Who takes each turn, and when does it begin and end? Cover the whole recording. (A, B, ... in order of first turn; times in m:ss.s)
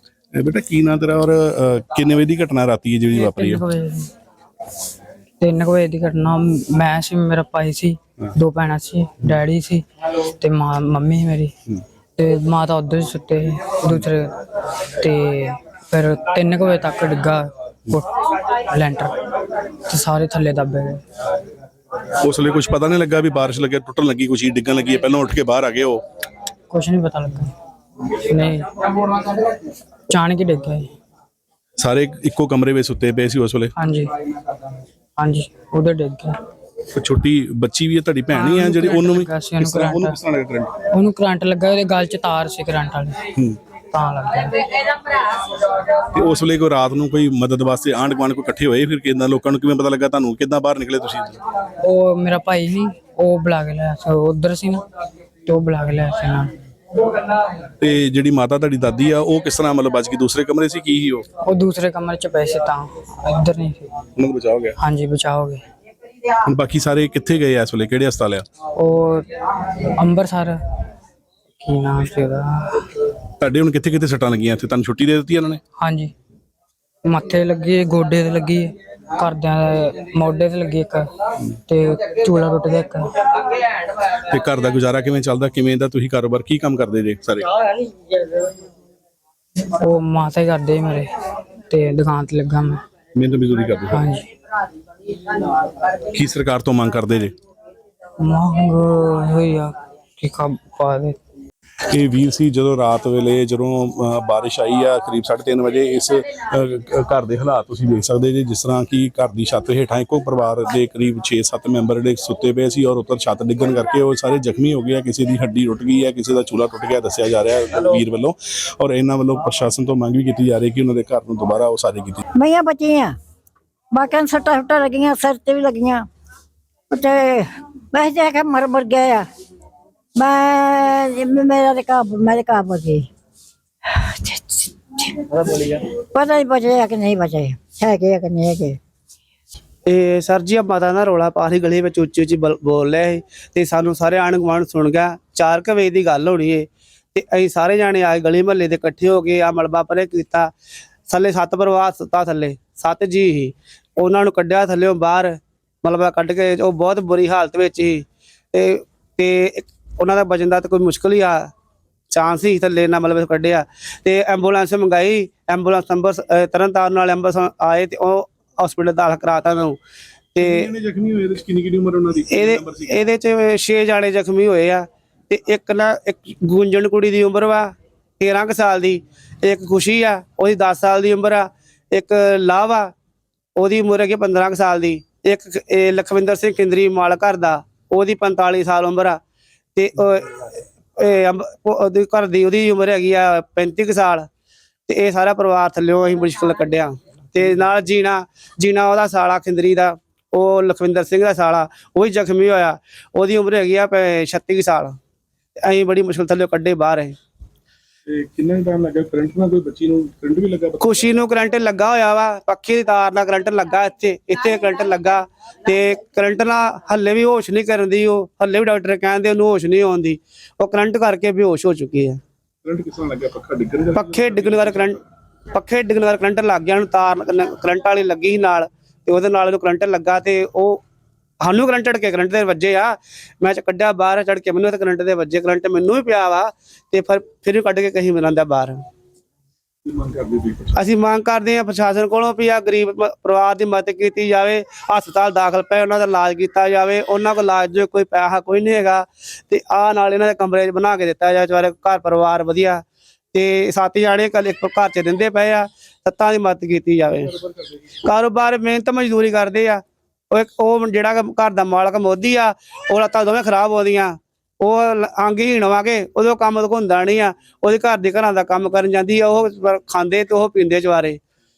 0:00.3-0:03.6 A
0:03.1-0:04.1 B
0:05.4-0:09.8 B
0:10.4-0:11.5 B
0:12.2-0:19.2 B
0:19.8-0:21.0 B
0:22.1-0:26.0 A
0:26.7-0:27.5 B
0:28.1-0:29.2 B
0:30.1-0:30.9 B
0:31.8-0:33.7 A
0:33.8-0:34.1 B
0:35.2-0:36.4 B
0:36.9-0:40.8 A
0:38.3-0:40.2 B
0:40.9-0:43.2 B
0:43.9-0:45.2 B
0:46.1-0:51.4 A
0:51.8-0:54.8 B
0:55.4-0:56.5 B
0:57.8-1:01.3 A
1:01.4-1:03.9 B
1:04.2-1:04.8 A
1:04.8-1:05.6 B
1:06.4-1:08.5 A
1:08.8-1:10.6 B
1:11.6-1:12.9 B
1:13.4-1:15.6 A
1:15.8-1:16.1 B
1:17.0-1:23.4 B
1:24.0-1:27.6 A
1:29.7-1:31.1 B
1:31.7-1:32.8 B
1:33.1-1:34.1 A
1:33.9-1:34.3 B
1:35.9-1:37.3 A
1:38.2-1:41.2 B
1:41.9-2:02.2 A
2:02.3-2:03.2 C
2:03.9-2:06.1 C
2:06.9-2:09.2 C
2:10.2-2:13.1 C
2:13.9-2:18.8 C
2:19.8-2:30.5 D
2:31.1-2:41.5 D
2:42.1-2:49.8 D
2:50.3-2:50.7 D
2:50.4-2:53.0 A
2:52.3-3:02.9 D
3:03.6-3:09.2 D
3:09.7-3:14.3 D
3:14.9-3:25.0 D
3:25.6-3:27.1 D
3:28.1-3:30.9 A
3:30.8-3:42.2 D
3:42.6-3:45.0 A
3:43.9-3:45.0 D
3:45.5-3:50.8 D
3:51.4-3:58.8 D
3:59.8-4:00.8 A
4:00.7-4:17.3 D
4:18.0-4:31.2 D